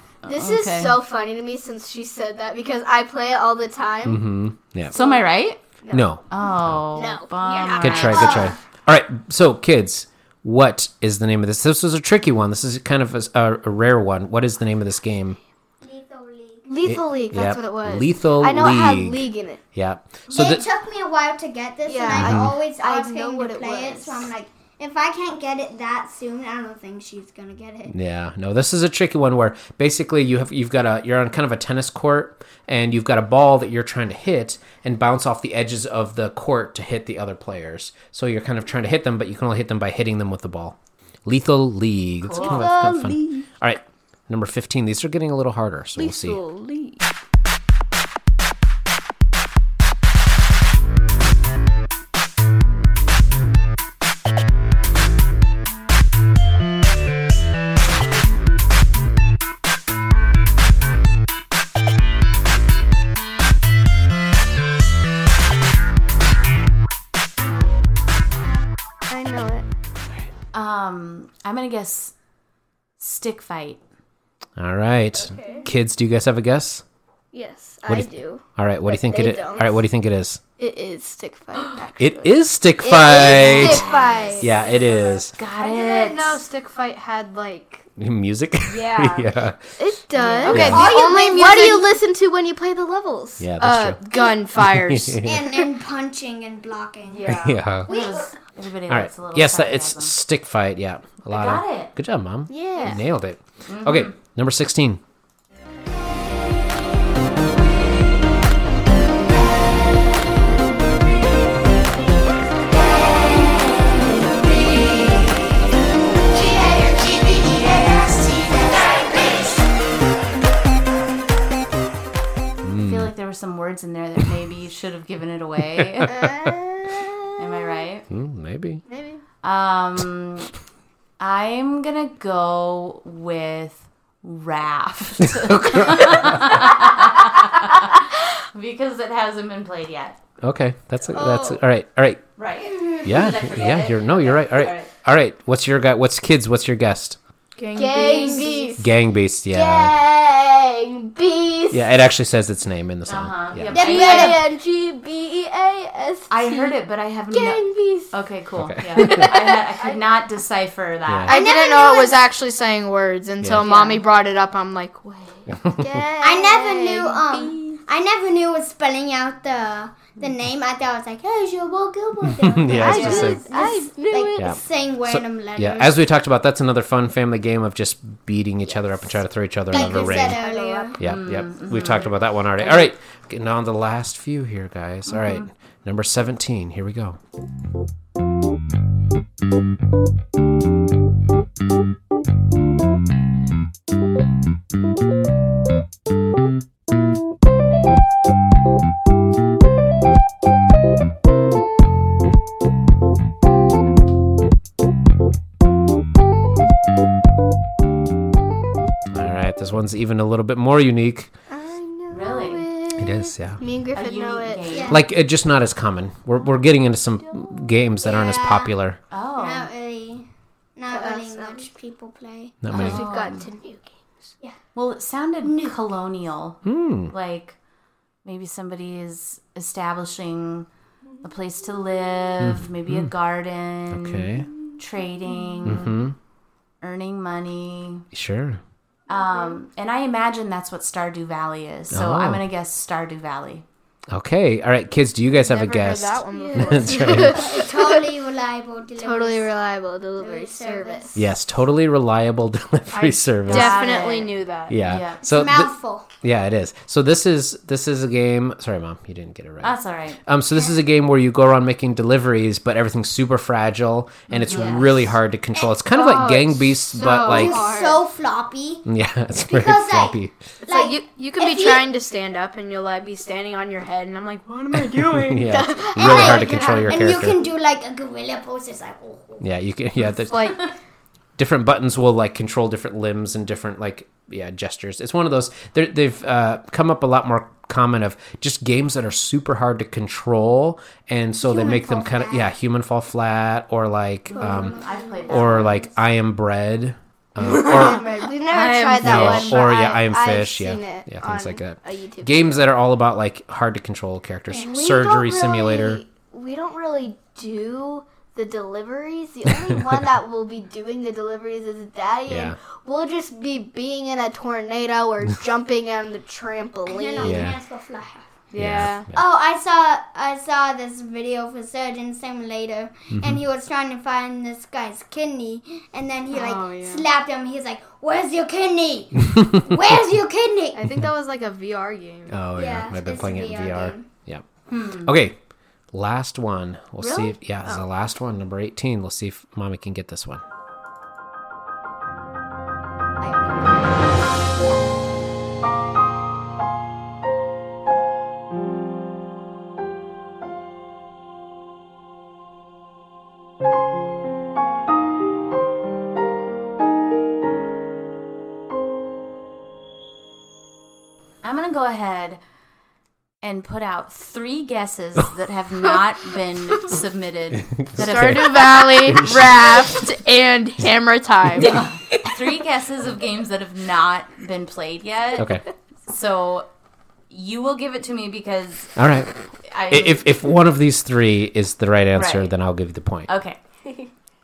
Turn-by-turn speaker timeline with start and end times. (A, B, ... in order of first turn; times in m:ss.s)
0:00.2-0:01.0 A
0:00.2-0:04.2 B
0:04.0-0:05.0 C
0:04.9-0:05.2 B
0:04.9-0:05.6 A
0:05.8-0:06.1 B
0:05.9-0:06.8 C
0:06.3-0:08.5 A
0:07.0-0:08.6 B
0:07.8-0:15.4 C
0:07.9-0:08.6 D
0:15.8-0:16.7 D
0:16.7-0:19.6 B
0:16.9-0:20.6 C
0:20.3-0:28.0 D
0:21.9-0:24.3 B
0:22.1-0:22.6 C
0:27.9-0:46.4 C
0:42.2-0:42.7 A
0:42.4-0:43.4 B
0:46.1-0:47.0 B
1:09.1-1:09.7 B
1:10.5-1:12.1 A
1:13.0-1:13.8 A
1:14.6-1:16.8 C
1:15.2-1:15.7 B
1:17.3-1:19.8 B
1:17.9-1:20.4 C
1:20.6-1:24.9 B
1:22.0-1:23.9 C
1:23.2-1:24.5 A
1:24.4-1:25.3 C
1:25.3-1:26.4 A
1:25.6-1:27.9 E
1:28.0-1:29.6 C
1:28.7-1:29.2 E
1:29.8-1:33.5 B
1:30.2-1:31.2 A
1:30.4-1:31.8 E
1:30.5-1:30.8 C
1:30.9-1:31.7 D
1:33.4-1:34.0 C
1:33.6-1:35.3 E
1:34.6-1:35.4 C
1:35.2-1:38.4 D
1:37.1-1:40.2 A
1:37.2-1:37.9 C
1:38.9-1:45.0 C
1:41.3-1:41.9 A
1:42.5-1:43.0 B
1:43.7-1:44.1 A
1:53.0-1:53.7 D
1:56.3-1:59.2 D
2:02.6-2:03.1 C
2:02.8-2:06.1 A
2:05.8-2:06.3 C
2:06.0-2:07.4 B
2:07.4-2:08.1 A
2:08.1-2:08.8 C
2:08.9-2:09.2 B
2:09.4-2:10.5 A
2:11.2-2:20.2 A
2:15.3-2:16.8 C
2:20.4-2:22.2 C
2:21.1-2:21.6 B
2:22.4-2:24.9 A
2:23.0-2:27.2 C
2:27.6-2:28.6 E
2:27.7-2:28.9 B
2:27.8-2:28.7 A
2:28.8-2:29.9 C
2:29.5-2:31.9 B
2:31.7-2:33.8 C
2:33.1-2:34.4 A
2:33.7-2:34.5 D
2:33.7-2:36.8 B
2:36.3-2:41.4 A
2:37.3-2:38.2 B
2:38.6-2:39.2 C
2:39.0-2:40.0 B
2:41.1-2:41.3 C
2:41.3-2:42.2 D
2:41.3-2:45.5 E
2:43.4-2:43.7 C
2:43.6-2:44.0 A
2:45.5-2:45.9 C
2:45.8-2:47.6 B
2:46.2-2:56.0 D
2:52.4-2:53.4 C
2:52.8-2:53.8 E
2:52.8-2:54.4 B
2:54.4-3:00.4 C
2:59.7-3:01.0 D
3:00.4-3:00.9 B
3:01.0-3:07.2 C
3:01.0-3:02.8 A
3:05.1-3:05.5 A
3:29.1-3:31.3 C
3:31.5-3:34.9 B
3:32.1-3:32.7 A
3:33.0-3:33.6 C
3:33.9-3:35.0 A
3:34.7-3:35.0 D
3:34.9-3:39.0 C
3:38.0-3:38.7 D
3:39.1-3:39.7 A
3:39.4-3:42.7 D
3:40.9-3:41.7 B
3:42.6-3:43.1 C
3:42.7-3:44.3 B
3:42.7-3:43.5 A
3:44.8-3:47.6 A
3:45.4-3:46.0 D
3:46.6-3:47.1 C
3:48.2-3:50.7 A
3:51.2-3:56.0 A
3:52.4-3:53.1 C
3:53.9-3:54.5 C
3:55.6-3:56.2 C
3:56.8-3:58.0 A
3:58.1-3:58.6 C
3:59.1-4:03.6 A
3:59.1-3:59.5 B
4:01.9-4:02.4 C
4:04.1-4:07.5 C
4:05.4-4:07.6 E
4:06.4-4:08.0 B
4:07.1-4:09.5 D
4:09.0-4:11.2 B
4:10.2-4:11.1 D
4:11.2-4:14.0 C
4:12.9-4:14.8 E
4:13.5-4:15.2 A
4:14.7-4:27.7 C
4:15.2-4:16.1 D
4:19.6-4:20.2 A
4:24.3-4:25.2 A
4:26.0-4:28.0 B
4:26.0-4:26.3 E
4:27.2-4:28.9 D
4:28.9-4:30.4 C
4:29.4-4:31.9 D
4:30.6-4:36.3 E
4:34.7-4:37.5 C
4:35.9-4:39.4 D
4:36.1-4:36.9 B
4:39.4-4:40.7 C
4:40.3-4:40.6 E
4:41.4-4:58.0 C
4:51.6-4:51.9 B
4:51.6-4:52.5 D
4:54.3-4:55.9 A
4:54.4-4:55.7 D
4:57.4-4:59.6 E
4:57.5-5:02.6 B
4:59.0-5:06.0 C
5:04.5-5:17.6 B
5:09.7-5:10.0 C
5:12.3-5:12.6 C
5:16.8-5:18.3 D
5:17.2-5:17.6 C
5:18.5-5:19.1 E
5:18.6-5:19.2 C
5:19.1-5:30.9 D
5:23.2-5:23.4 C
5:26.3-5:27.1 E
5:30.8-5:32.4 E
5:32.3-5:35.4 C
5:32.6-5:34.1 D
5:34.7-5:35.1 A
5:35.9-5:40.4 C
5:37.0-5:37.4 A
5:43.2-5:43.7 D
6:01.4-6:02.4 A
6:03.4-6:08.5 A
6:07.6-6:09.8 C
6:08.0-6:11.8 E
6:11.6-6:16.7 A
6:15.4-6:15.6 C
6:17.3-6:19.0 A
6:19.0-6:19.3 C
6:19.7-6:20.3 A
6:19.9-6:23.3 C
6:22.2-6:22.5 A
6:23.3-6:23.6 A